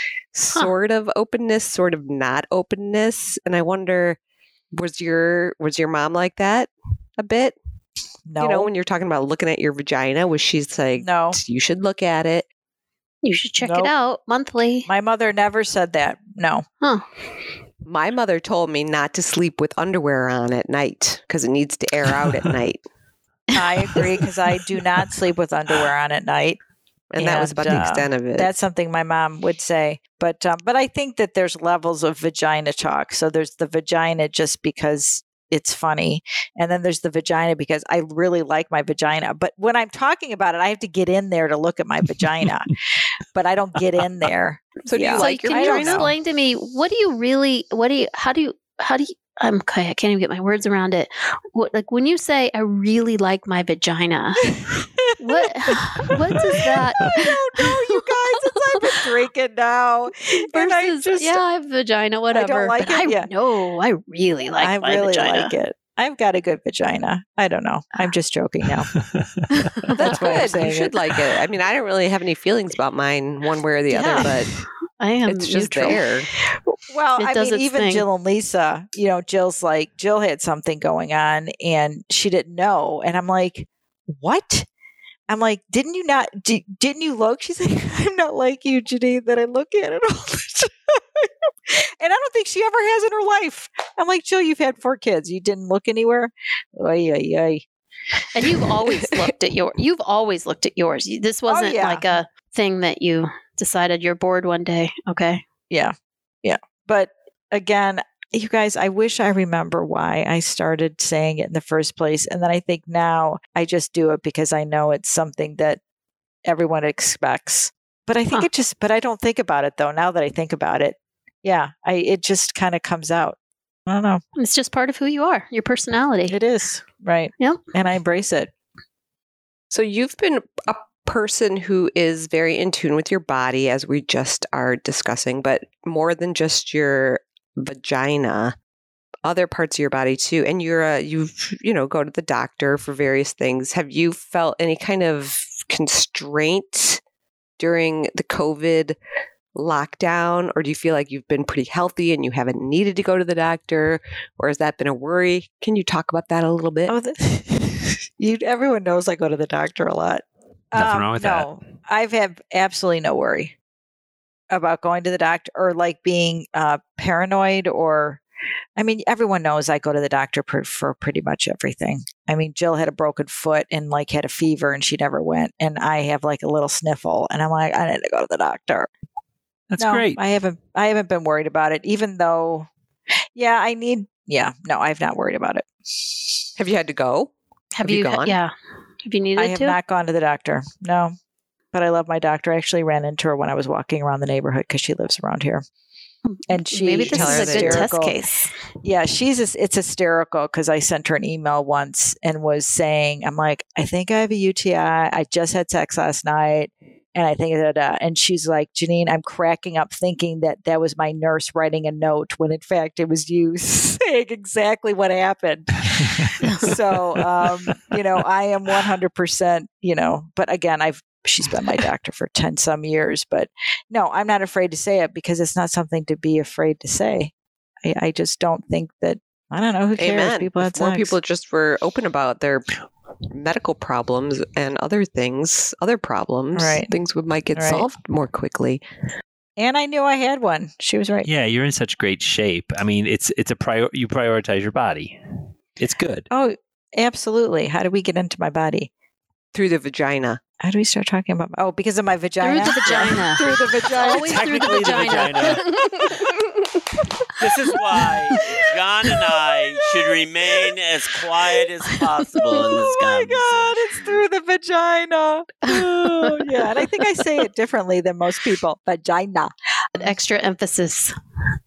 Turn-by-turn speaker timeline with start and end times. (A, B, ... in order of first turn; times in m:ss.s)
0:00.3-0:04.2 A
0:04.7-0:07.6 A
0:08.3-0:08.7 B
0:08.4-0:12.5 A
0:11.0-0:11.4 B
0:13.2-0:14.9 C
0:13.6-0:13.9 B
0:14.9-0:16.6 B
0:17.9-0:22.8 A
0:23.6-0:26.6 B
0:27.1-0:28.5 A
0:27.2-0:42.8 B
0:43.3-0:46.1 B
0:44.9-0:46.1 A
0:45.1-0:54.5 C
0:54.6-0:55.5 B
0:55.2-0:58.6 C
0:57.1-1:01.4 B
1:00.2-1:05.5 C
1:02.3-1:03.3 B
1:04.6-1:08.9 B
1:09.0-1:09.3 D
1:09.6-1:09.9 C
1:09.9-1:14.5 A
1:10.0-1:10.9 B
1:13.9-1:14.3 C
1:15.0-1:16.0 C
1:15.3-1:16.3 A
1:16.7-1:24.7 B
1:17.2-1:18.1 C
1:25.3-1:37.6 B
1:38.3-1:45.4 C
1:41.5-1:42.1 B
1:45.7-1:55.8 B
1:56.4-2:04.2 B
2:04.4-2:06.4 C
2:06.3-2:08.5 B
2:09.7-2:18.6 A
2:19.2-2:27.0 A
2:27.6-2:29.0 A
2:29.6-2:37.0 A
2:36.9-2:43.6 B
2:40.8-2:41.5 D
2:44.5-2:48.2 B
2:48.8-2:58.9 B
2:59.7-3:00.2 D
2:59.8-3:02.7 B
3:03.4-3:05.7 B
3:06.6-3:07.3 A
3:07.8-3:08.5 C
3:07.8-3:08.4 A
3:09.0-3:09.8 C
3:09.4-3:11.2 B
3:11.7-3:15.6 B
3:16.3-3:18.5 C
3:16.5-3:18.2 B
3:17.1-3:17.9 A
3:18.8-3:47.3 B
3:36.0-3:37.2 D
3:47.8-3:51.2 B
3:50.0-3:58.8 A
3:56.6-3:56.9 B
3:57.6-3:57.9 B
3:59.6-4:01.3 B
4:01.2-4:05.2 D
4:05.8-4:06.3 D
4:06.3-4:08.9 B
4:09.5-4:10.4 A
4:10.6-4:14.4 B
4:12.4-4:16.8 C
4:14.0-4:15.9 D
4:17.4-4:24.2 E
4:18.3-4:18.6 C
4:18.4-4:19.4 B
4:22.5-4:30.0 B
4:25.7-4:26.8 C
4:30.0-4:31.2 C